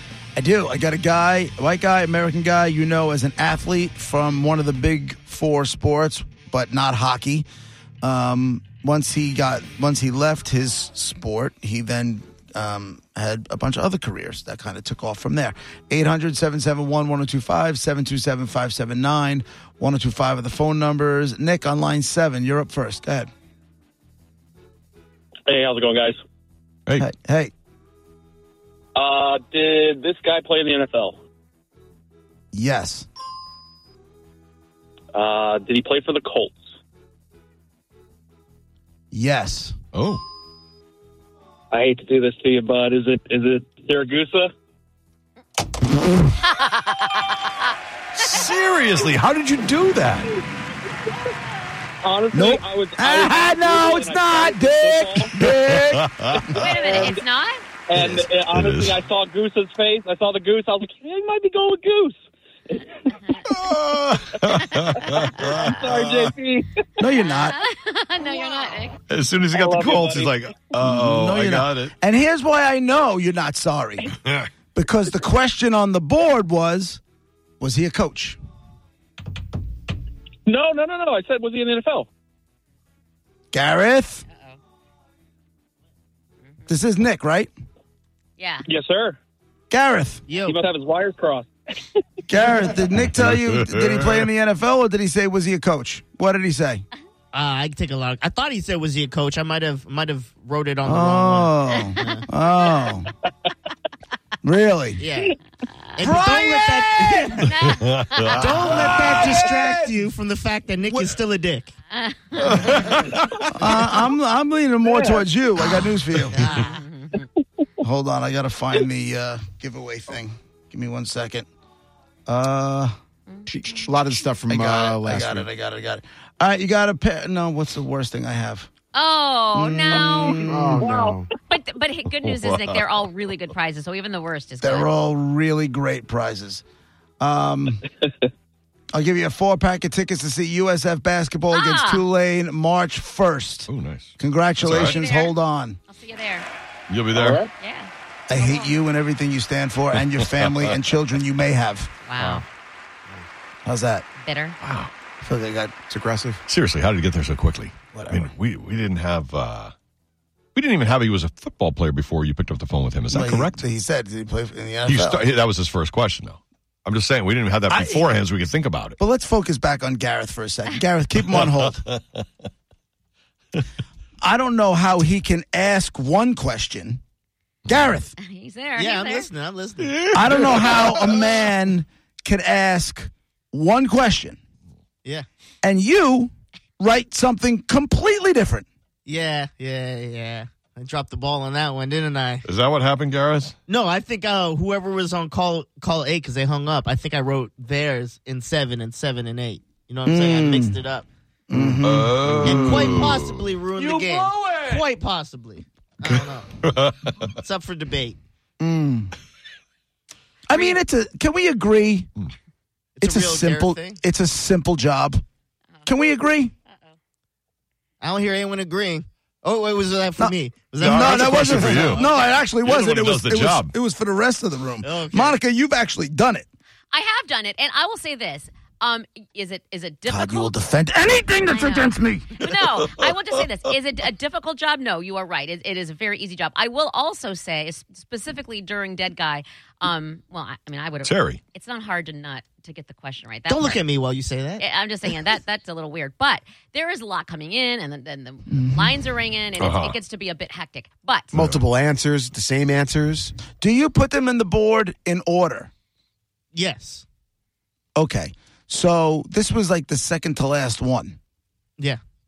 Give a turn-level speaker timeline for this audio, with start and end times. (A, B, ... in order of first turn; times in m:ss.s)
0:00.4-0:07.5 A
0:08.0-0:23.3 A
0:25.5-0:26.2 B
0:27.0-0:27.5 A
0:29.0-0:31.2 B
0:32.5-0:33.1 A
0:35.1-0:36.6 B
0:39.1-0:39.8 A
0:39.9-0:40.2 C
0:41.7-0:44.5 B
0:46.5-0:47.5 D
0:48.2-0:50.3 C
0:52.0-0:55.3 B
0:52.3-0:56.2 A
0:55.4-0:56.4 C
0:56.4-0:57.2 B
0:56.5-0:57.6 D
0:57.9-1:02.2 B
0:58.0-0:59.0 C
1:03.4-1:06.3 C
1:05.2-1:06.7 B
1:07.0-1:07.6 A
1:07.2-1:09.0 D
1:09.1-1:12.0 C
1:09.5-1:10.4 B
1:10.8-1:14.1 A
1:14.2-1:14.5 C
1:14.8-1:17.0 A
1:17.6-1:18.4 A
1:20.5-1:22.1 B
1:23.5-1:24.2 A
1:24.3-1:24.6 D
1:26.7-1:27.5 A
1:28.4-1:28.6 D
1:28.7-1:29.2 B
1:29.7-1:30.2 A
1:30.3-1:30.6 E
1:30.4-1:31.5 B
1:32.3-1:36.8 A
1:33.0-1:34.3 C
1:37.3-1:42.2 E
1:40.8-1:43.1 A
1:44.4-1:45.0 A
1:45.0-1:45.4 E
1:46.0-1:47.5 E
1:46.0-1:47.5 A
1:47.4-1:48.6 D
1:47.6-1:49.3 C
1:48.3-1:50.0 A
1:48.3-1:51.7 E
1:50.9-1:51.2 A
1:51.9-1:52.8 D
1:52.4-1:53.4 C
1:53.6-1:56.4 A
1:54.9-1:55.2 B
1:56.3-1:56.8 E
1:56.5-1:57.3 D
1:57.8-2:01.5 A
2:02.3-2:02.9 A
2:03.5-2:05.5 F
2:04.5-2:08.7 A
2:08.9-2:10.4 D
2:09.5-2:10.9 A
2:10.4-2:11.3 F
2:10.8-2:11.2 B
2:11.5-2:14.9 D
2:12.3-2:12.9 C
2:14.6-2:16.6 A
2:17.2-2:17.8 A
2:18.9-2:25.8 A
2:21.5-2:22.0 D
2:23.7-2:25.0 C
2:24.8-2:25.3 D
2:25.9-2:26.5 D
2:26.9-2:27.4 C
2:27.1-2:27.5 B
2:27.6-2:28.8 D
2:28.3-2:31.9 A
2:29.9-2:30.8 C
2:32.1-2:32.4 D
2:32.2-2:32.4 F
2:33.7-2:34.1 A
2:34.2-2:34.6 D
2:34.6-2:34.9 C
2:35.2-2:35.7 A
2:35.9-2:36.4 F
2:36.5-2:39.7 C
2:37.9-2:38.3 A
2:40.6-2:43.6 C
2:43.1-2:45.2 A
2:44.8-2:49.0 C
2:47.7-2:48.1 A
2:49.0-2:51.8 A
2:51.9-2:52.2 C
2:54.2-2:57.0 A
2:57.7-2:58.1 A
2:58.2-2:59.3 D
2:58.8-3:00.8 E
2:59.8-3:01.2 C
3:00.1-3:04.4 A
3:05.6-3:08.7 A
3:09.1-3:12.4 E
3:12.4-3:13.5 C
3:13.7-3:21.1 E
3:20.0-3:20.8 A
3:21.5-3:23.0 A
3:21.6-3:24.8 C
3:22.4-3:26.5 E
3:26.6-3:27.3 C
3:27.4-3:28.2 E
3:28.6-3:29.1 A
3:30.5-3:32.1 A
3:33.0-3:34.0 E
3:33.0-3:35.2 A
3:35.8-3:36.5 A
3:36.7-3:37.0 D
3:38.0-3:42.4 E
3:40.2-3:46.5 A
3:40.8-3:42.1 C
3:42.6-3:43.7 C
3:44.8-3:45.4 E
3:46.9-3:50.6 D
3:50.1-3:52.5 A
3:51.4-4:03.8 D
4:01.0-4:01.4 C
4:03.5-4:04.6 E
4:04.6-4:11.3 D
4:08.5-4:08.9 A
4:09.6-4:10.0 C
4:11.3-4:13.3 F
4:11.4-4:11.6 C
4:13.5-4:15.7 A
4:16.5-4:17.0 E
4:18.0-4:21.2 A